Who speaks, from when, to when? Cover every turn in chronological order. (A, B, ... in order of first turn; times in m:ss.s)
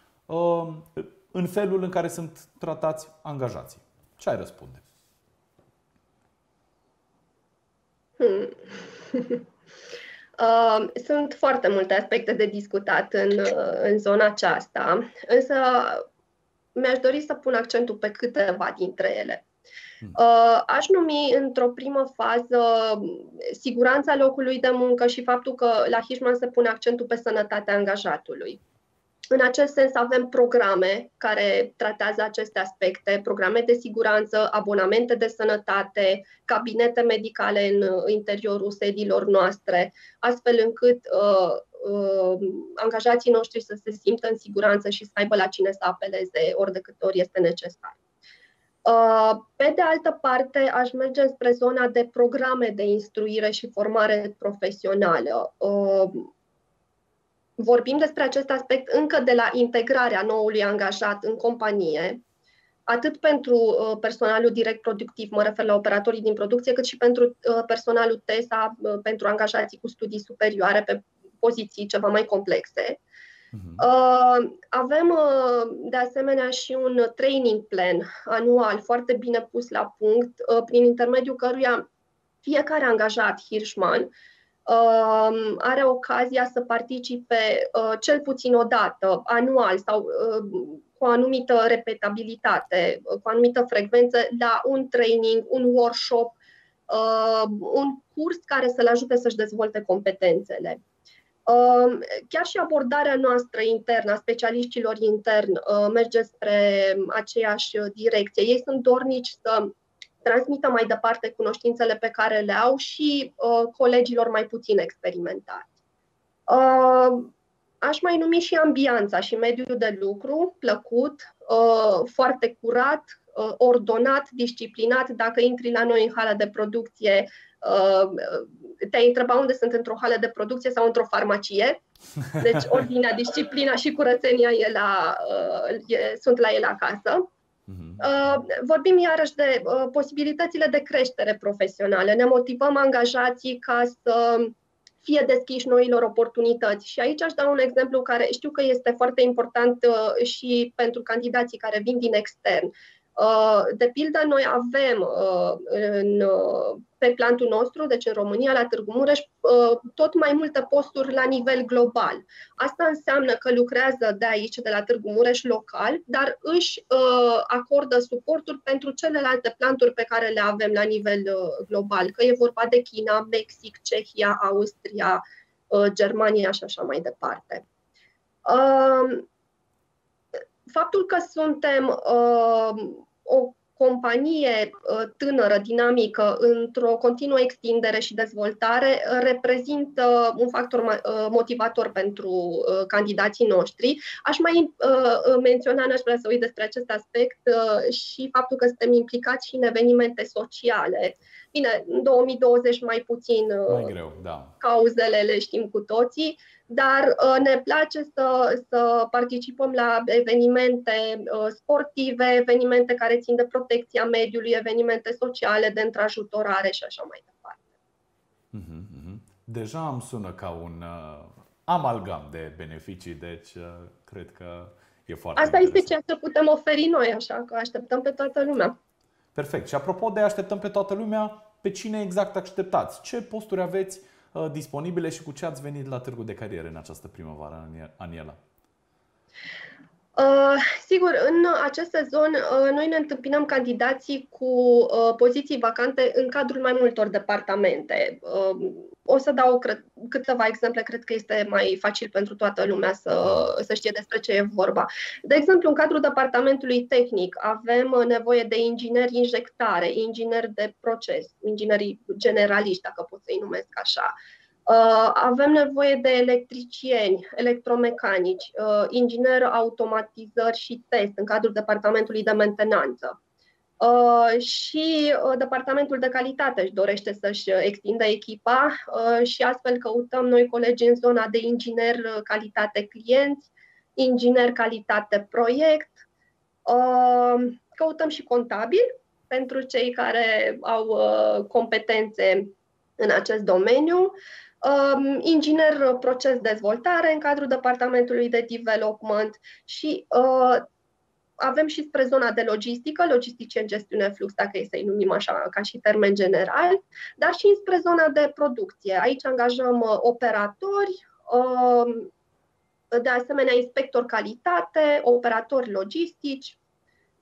0:00.3-0:04.8 A
0:08.2-0:09.4 B
0:10.4-0:16.0 B
0:16.8-0:19.5 B
0:20.2-0:28.6 B
0:29.3-0:48.0 B
0:48.8-0:56.3 B
0:57.6-1:02.2 B
1:02.9-1:13.0 B
1:13.5-1:13.8 A
1:13.8-1:21.8 B
1:22.4-1:24.1 B
1:24.7-1:36.4 B
1:36.9-1:40.8 B
1:41.5-1:55.7 B
1:56.5-2:11.8 B
2:12.4-2:17.3 B
2:17.7-2:18.2 A
2:18.0-2:57.6 B
2:58.5-2:59.3 B
3:00.7-3:23.9 B
3:23.7-3:24.6 A
3:24.6-3:37.6 B
3:38.5-3:45.9 A
3:45.4-3:48.8 B
3:49.4-3:58.4 A
4:00.2-4:24.1 B
4:13.2-4:13.5 A
4:24.7-4:33.2 B
4:33.8-4:46.0 B
4:46.7-5:00.7 B
5:01.4-5:12.1 B
5:12.9-5:16.6 B